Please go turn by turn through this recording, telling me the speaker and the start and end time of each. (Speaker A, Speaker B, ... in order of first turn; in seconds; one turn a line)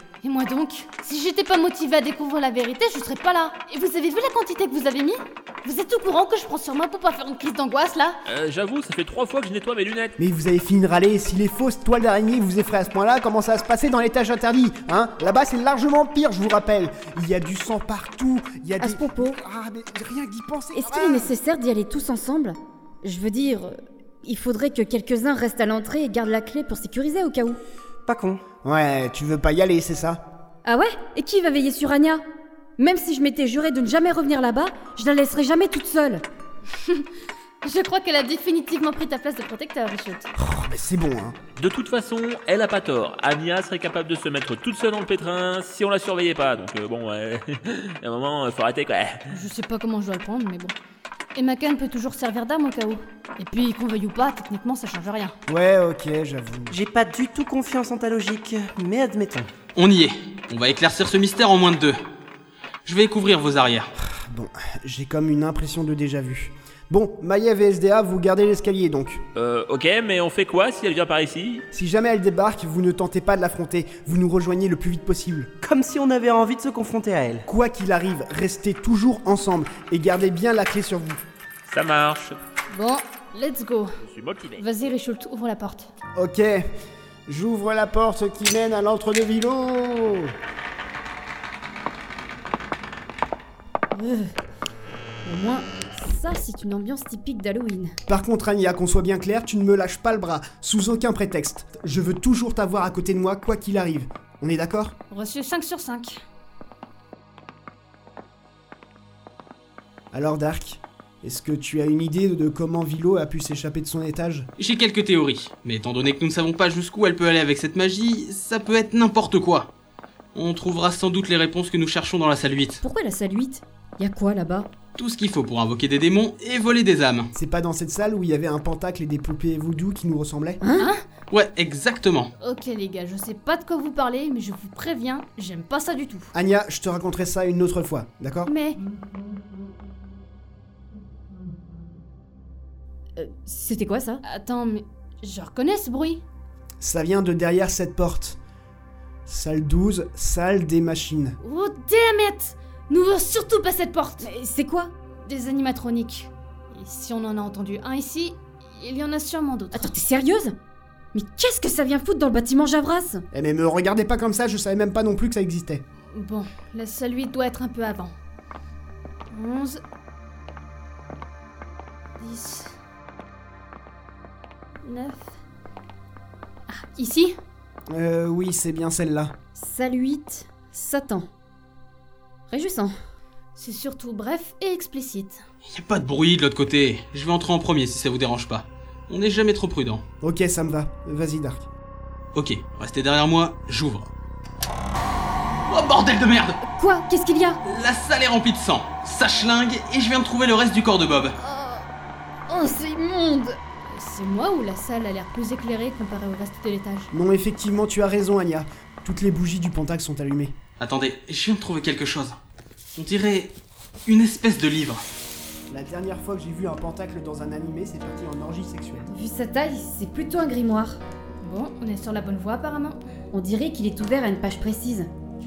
Speaker A: 0.2-8.2
Speaker B: 8.2-10.1
Speaker C: 10.2-21.3
Speaker D: 18.8-19.4
Speaker D: 20.7-27.6
Speaker E: 28.1-28.4
Speaker C: 28.6-30.2
Speaker D: 30.6-32.2
Speaker D: 32.8-36.2
Speaker A: 37.6-40.3
Speaker C: 40.4-41.4
Speaker B: 41.6-49.2
Speaker A: 49.3-50.7
Speaker A: 51.3-55.3
Speaker C: 55.5-56.7
Speaker E: 56.7-59.5
Speaker F: 59.7-62.0
Speaker F: 62.8-63.9
Speaker C: 64.0-69.2
Speaker B: 69.3-71.6
Speaker C: 71.7-75.5
Speaker E: 75.6-77.5
Speaker C: 77.5-81.2
Speaker B: 81.7-82.4
Speaker A: 82.7-84.0
Speaker B: 84.0-84.6
Speaker A: 84.5-85.9
Speaker C: 86.1-86.6
Speaker C: 87.3-90.3
Speaker D: 93.9-94.3
Speaker D: 95.2-97.9
Speaker C: 98.1-104.9
Speaker A: 105.1-106.2
Speaker C: 110.1-114.5
Speaker F: 114.6-119.7
Speaker F: 120.3-122.8
Speaker D: 122.8-124.7
Speaker F: 125.0-127.3
Speaker C: 127.3-130.6
Speaker D: 130.6-130.9
Speaker F: 131.3-132.3
Speaker A: 132.4-136.3
Speaker C: 136.3-138.5
Speaker A: 138.4-138.8
Speaker D: 143.2-144.2
Speaker A: 144.2-146.2
Speaker C: 146.8-148.4
Speaker C: 149.3-151.4
Speaker A: 151.4-154.3
Speaker D: 154.2-154.9
Speaker A: 155.2-159.9
Speaker D: 159.7-160.6
Speaker D: 161.1-163.2
Speaker C: 163.3-165.8
Speaker A: 166.1-168.1
Speaker A: 169.3-169.8
Speaker A: 172.2-172.7
Speaker A: 174.8-175.3
Speaker A: 176.7-177.3
Speaker C: 177.9-179.3
Speaker D: 179.6-181.3
Speaker D: 182.5-182.9
Speaker A: 183.6-185.4
Speaker F: 185.7-190.0
Speaker C: 190.2-191.7
Speaker F: 192.3-194.1
Speaker F: 195.7-196.6
Speaker D: 196.7-197.6
Speaker F: 197.6-201.3
Speaker D: 201.4-201.8
Speaker D: 202.5-203.6
Speaker A: 203.9-207.1
Speaker C: 207.1-210.5
Speaker F: 210.8-212.3
Speaker F: 212.9-213.5
Speaker F: 214.1-215.0
Speaker C: 215.7-219.1
Speaker D: 219.1-221.0
Speaker A: 221.4-223.0
Speaker D: 223.3-225.1